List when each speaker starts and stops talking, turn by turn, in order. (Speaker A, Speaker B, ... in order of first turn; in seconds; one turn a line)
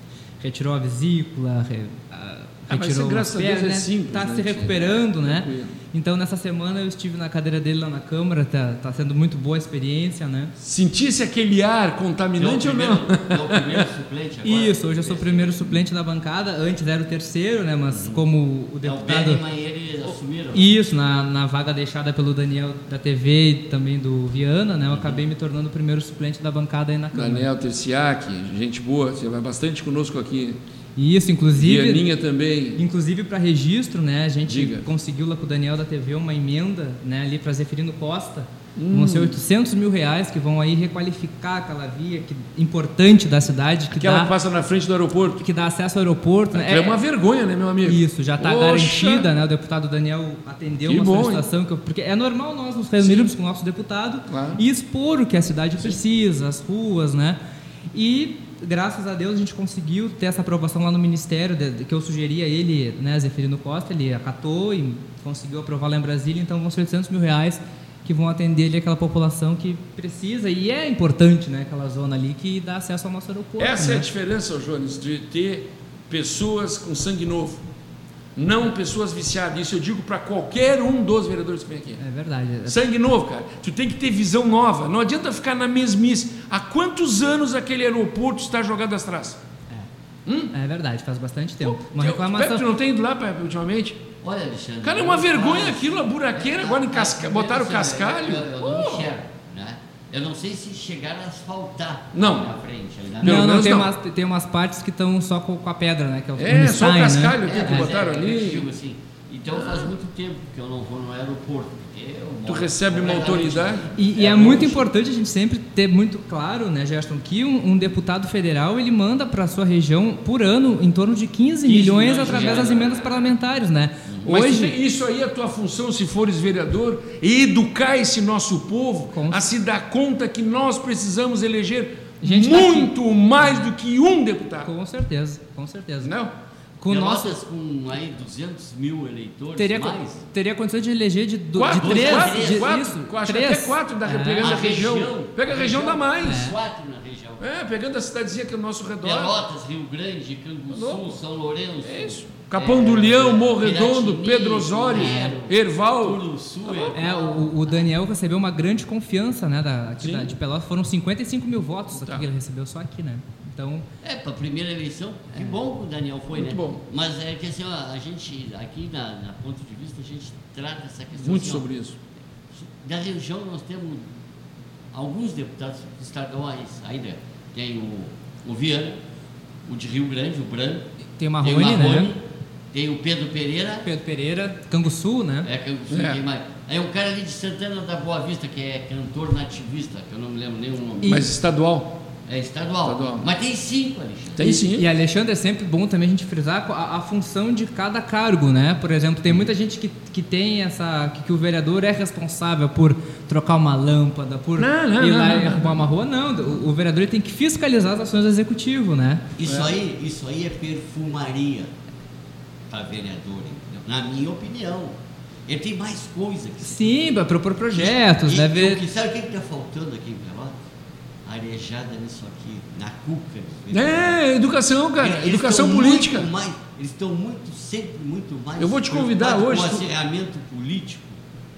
Speaker A: 0.4-10.5
Speaker B: 2.7-5.8
Speaker B: 10.6-13.9
Speaker C: 12.4-15.6
Speaker A: 14.4-19.4
Speaker C: 17.9-18.2
Speaker C: 18.8-20.8
Speaker A: 20.5-27.5
Speaker C: 24.9-25.2
Speaker B: 27.1-30.6
Speaker A: 31.0-32.0
Speaker B: 31.6-32.8
Speaker A: 32.8-44.3
Speaker B: 34.5-34.9
Speaker B: 38.8-39.4
Speaker B: 43.9-45.4
Speaker A: 45.4-47.0
Speaker B: 46.5-49.3
Speaker A: 47.8-57.4
Speaker B: 50.9-51.5
Speaker B: 53.0-53.3
Speaker B: 54.3-54.6
Speaker A: 57.9-74.1
Speaker B: 73.6-77.6
Speaker B: 78.4-82.0
Speaker A: 82.0-82.8
Speaker B: 82.7-89.4
Speaker B: 90.3-90.5
Speaker A: 90.5-92.7
Speaker B: 91.6-94.0
Speaker C: 94.2-103.5
Speaker B: 94.8-99.1
Speaker B: 102.1-102.5
Speaker B: 103.2-103.9
Speaker A: 103.2-107.9
Speaker B: 106.4-108.7
Speaker C: 107.4-114.9
Speaker B: 109.5-109.9
Speaker B: 112.5-114.4
Speaker A: 114.0-124.8
Speaker C: 121.7-123.1
Speaker B: 122.2-122.7
Speaker B: 124.2-134.7
Speaker A: 129.1-129.4
Speaker A: 132.2-133.7
Speaker A: 134.6-136.1
Speaker B: 136.0-136.3
Speaker A: 136.8-137.4
Speaker C: 136.9-140.2
Speaker A: 139.6-144.5
Speaker B: 141.6-146.6
Speaker C: 141.7-142.7
Speaker C: 144.4-147.4
Speaker A: 146.2-146.6
Speaker B: 147.4-149.4
Speaker C: 149.0-157.9
Speaker B: 150.7-151.2
Speaker B: 151.8-156.9
Speaker A: 156.9-163.9
Speaker B: 160.0-160.3
Speaker B: 161.9-162.3
Speaker C: 164.0-171.7
Speaker B: 166.3-166.8
Speaker B: 171.2-172.0
Speaker C: 172.5-174.1
Speaker C: 174.9-179.0
Speaker C: 179.7-180.9
Speaker A: 181.2-182.1
Speaker C: 181.4-183.8
Speaker A: 183.8-185.5
Speaker C: 185.4-191.3
Speaker B: 185.9-186.2
Speaker B: 191.0-192.0
Speaker C: 192.3-194.6
Speaker B: 192.8-193.3
Speaker B: 194.4-194.9
Speaker A: 194.4-209.2
Speaker B: 204.6-205.8
Speaker C: 209.4-211.7
Speaker B: 209.4-209.8
Speaker C: 212.7-217.0
Speaker A: 216.6-218.8
Speaker C: 217.7-220.6
Speaker C: 221.2-224.2
Speaker B: 223.7-226.3
Speaker C: 225.0-231.2
Speaker B: 228.6-229.9